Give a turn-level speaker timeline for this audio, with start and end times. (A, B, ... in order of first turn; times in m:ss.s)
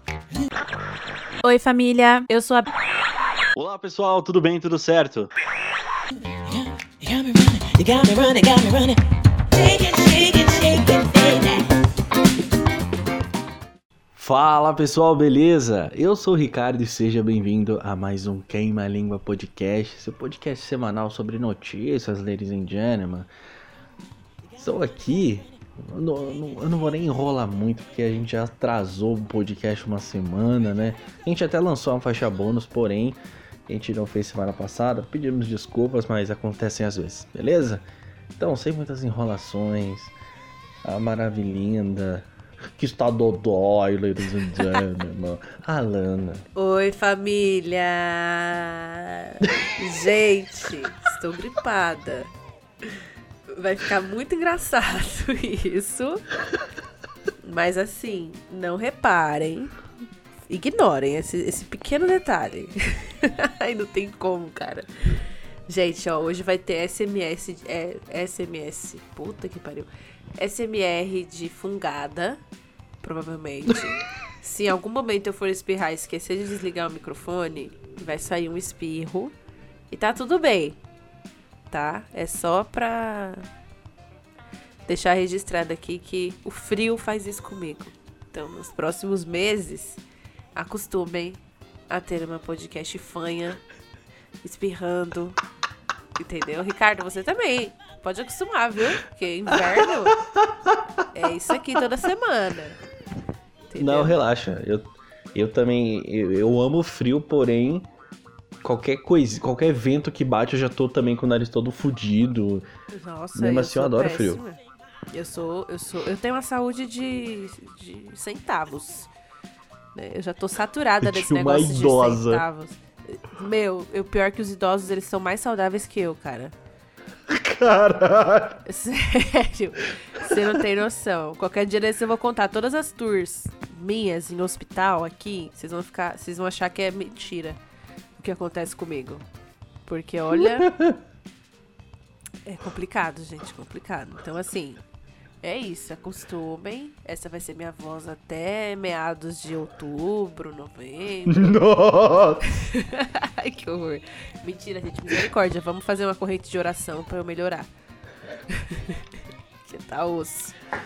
0:01.4-0:02.7 A
0:03.5-0:05.3 B
0:06.4-0:09.0 A
0:09.5-0:11.7 A
0:14.1-0:23.3 B
0:24.6-0:37.8 B
0:38.4-0:40.1 B
0:40.8-0:46.4 B
0:46.5-0:52.3 C
0:52.8-0:56.2 C
0:57.4-0:59.7 C
1:00.5-1:12.4 C
1:13.0-1:19.3 C
1:19.9-1:20.8 C
1:21.7-1:23.5 C
1:24.9-1:30.0 C
1:30.5-1:33.6 C
1:34.4-1:35.4 C
1:36.2-1:40.2 C
1:39.5-1:40.8 B
1:41.1-1:42.8 C
1:43.7-1:44.2 C
1:43.8-1:47.9 B
1:48.6-1:52.6 B
1:52.9-1:54.6 C
1:53.3-1:54.4 B
1:55.1-1:59.1 C
1:59.9-2:06.5 C
2:01.0-2:02.4 B
2:07.3-2:08.6 B
2:08.6-2:17.6 C
2:10.2-2:10.4 B
2:18.2-2:19.2 C
2:19.8-2:20.7 C
2:20.3-2:21.0 B
2:22.4-2:24.8 C
2:25.4-2:31.6 C
2:31.3-2:32.4 B
2:32.4-2:37.7 C
2:38.5-2:39.1 C
2:39.6-2:40.6 C